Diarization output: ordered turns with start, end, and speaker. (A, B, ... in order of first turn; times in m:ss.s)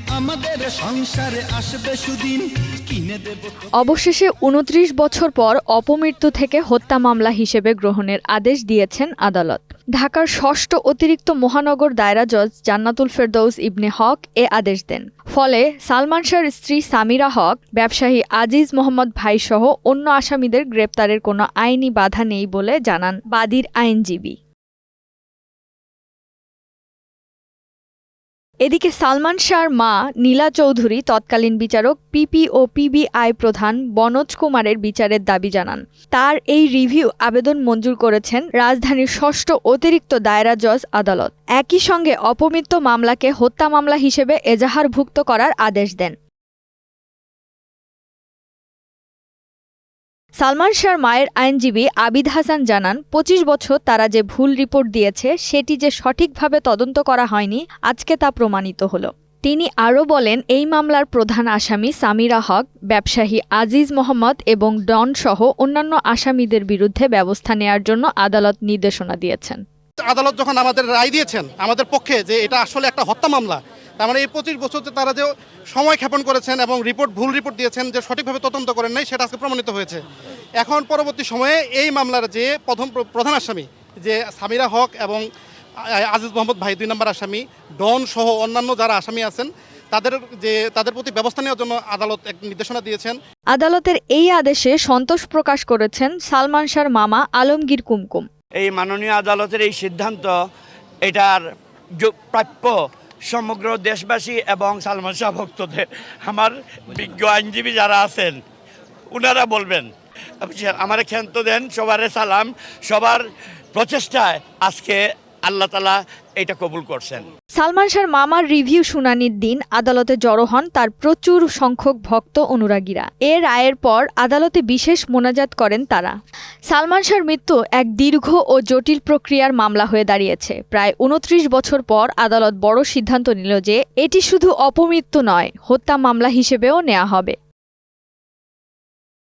0:00.1-0:03.6 A
0:03.8-0:24.4 B
0:28.6-0:46.2 B
0:50.4-1:09.6 B
1:10.1-1:20.0 C
1:20.6-1:25.2 C
1:26.0-1:33.2 C
1:33.5-1:38.3 B
1:38.6-1:40.3 D
1:41.0-1:41.4 D
1:42.0-1:48.4 D
1:49.1-1:49.9 D
1:50.4-1:57.2 D
1:57.6-2:06.1 B
2:06.7-2:17.4 B